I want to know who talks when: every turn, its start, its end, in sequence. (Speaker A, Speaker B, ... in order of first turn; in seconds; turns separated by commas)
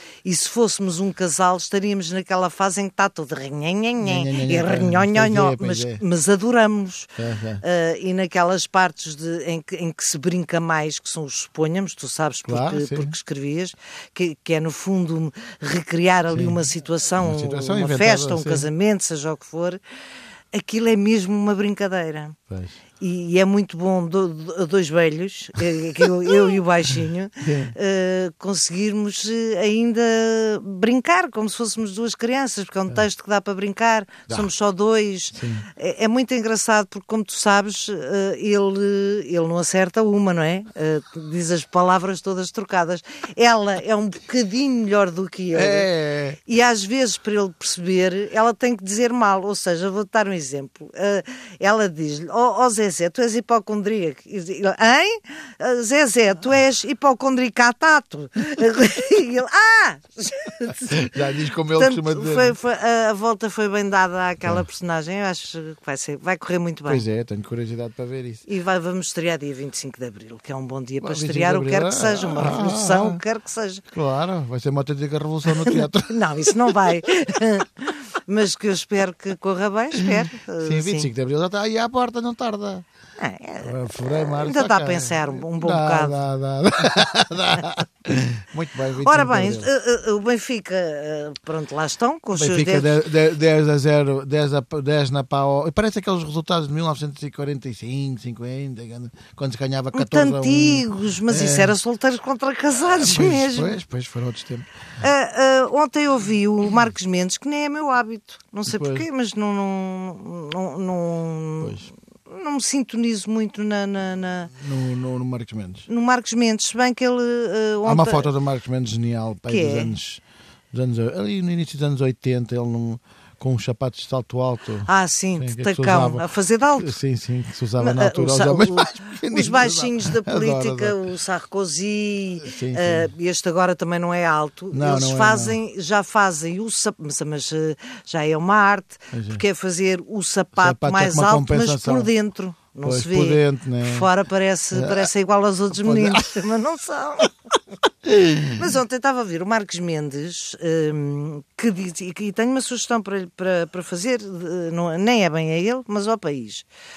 Speaker A: 0.2-19.8, Speaker B: 4.0-6.0, Speaker B: 7.2-7.6, Speaker B: 12.5-13.1, Speaker B: 16.3-16.6, Speaker B: 17.2-18.7, Speaker A: 20.5-22.4, Speaker B: 22.5-22.8, Speaker A: 23.0-45.9, Speaker B: 27.4-27.7, Speaker B: 35.3-35.7, Speaker B: 45.5-46.4, Speaker A: 46.5-61.0, Speaker B: 60.7-62.5, Speaker A: 61.8-67.0, Speaker B: 66.9-68.4, Speaker A: 68.5-73.8, Speaker B: 71.0-73.2, Speaker B: 73.9-76.2, Speaker A: 75.5-81.1, Speaker B: 80.0-82.8, Speaker A: 83.2-86.2, Speaker B: 83.6-89.7, Speaker A: 89.0-93.0, Speaker B: 92.3-101.7, Speaker A: 99.9-103.8, Speaker B: 102.9-104.7, Speaker A: 105.0-114.5, Speaker B: 108.7-109.0, Speaker B: 111.6-111.9, Speaker B: 114.5-115.8, Speaker A: 115.9-118.3, Speaker B: 117.8-131.0, Speaker A: 119.5-119.9, Speaker A: 124.8-126.9, Speaker A: 127.8-147.5, Speaker B: 132.4-133.1, Speaker B: 134.7-135.6, Speaker B: 139.1-139.4, Speaker B: 140.6-142.1, Speaker B: 142.8-144.1, Speaker B: 144.7-145.1, Speaker B: 145.7-146.5, Speaker B: 148.1-148.6, Speaker A: 148.5-156.7